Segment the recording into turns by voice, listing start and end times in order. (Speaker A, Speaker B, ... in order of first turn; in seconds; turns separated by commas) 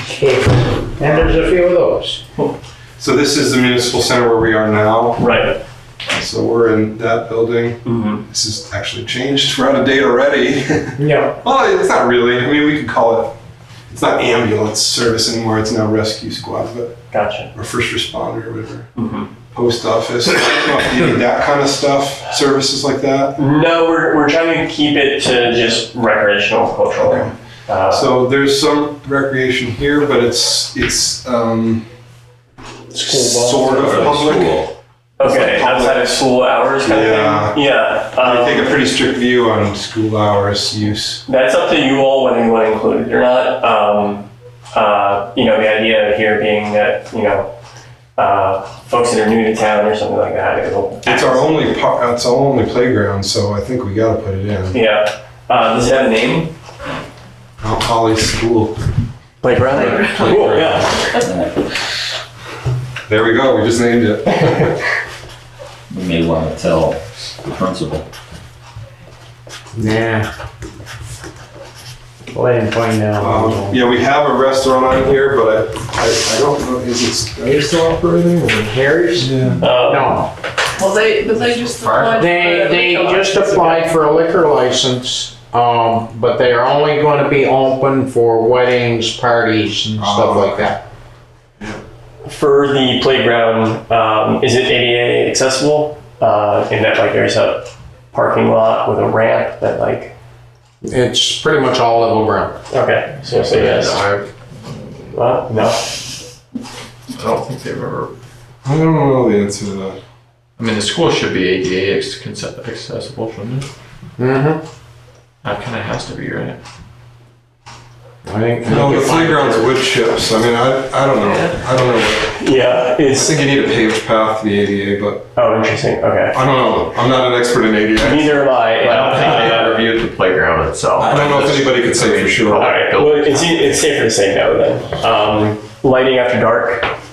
Speaker A: 0.1-2.2, Speaker B: 1.0-1.5, Speaker B: 3.0-5.3, Speaker C: 5.2-5.6, Speaker B: 6.1-13.3, Speaker C: 7.8-8.2, Speaker A: 11.0-11.3, Speaker B: 13.9-17.0, Speaker C: 17.1-17.5, Speaker B: 17.5-18.9, Speaker C: 19.0-19.3, Speaker B: 19.5-23.4, Speaker C: 23.4-28.1, Speaker B: 26.9-27.3, Speaker B: 27.9-31.9, Speaker A: 33.0-34.0, Speaker B: 33.0-34.6, Speaker D: 33.7-34.7, Speaker C: 35.2-38.8, Speaker B: 35.2-36.1, Speaker B: 36.8-37.6, Speaker B: 38.2-41.2, Speaker C: 41.3-47.5, Speaker C: 48.2-51.5, Speaker B: 51.0-54.8, Speaker C: 54.7-56.5, Speaker B: 57.6-58.7, Speaker C: 59.4-61.1, Speaker B: 59.7-61.1, Speaker D: 61.2-61.7, Speaker B: 63.1-64.8, Speaker D: 65.9-68.0, Speaker A: 69.8-70.2, Speaker A: 72.3-73.8, Speaker B: 73.2-79.6, Speaker A: 78.7-80.3, Speaker C: 79.6-80.2, Speaker E: 80.8-83.7, Speaker A: 82.0-90.8, Speaker F: 83.2-83.9, Speaker B: 90.0-90.7, Speaker C: 92.2-100.1, Speaker A: 100.9-102.5, Speaker C: 102.7-104.0, Speaker F: 103.2-104.3, Speaker C: 105.1-105.8, Speaker F: 107.1-108.1, Speaker B: 108.6-110.0, Speaker F: 110.6-113.7, Speaker A: 114.2-114.6, Speaker F: 115.4-116.6, Speaker A: 118.2-119.3, Speaker B: 118.6-122.4, Speaker F: 121.2-121.5, Speaker C: 122.3-123.4, Speaker B: 123.1-125.2, Speaker C: 125.3-126.3, Speaker B: 126.3-128.4, Speaker C: 128.0-129.8, Speaker F: 128.8-131.2, Speaker B: 128.9-129.6, Speaker D: 131.0-132.2, Speaker B: 131.0-132.7, Speaker F: 132.1-133.8, Speaker C: 132.5-136.9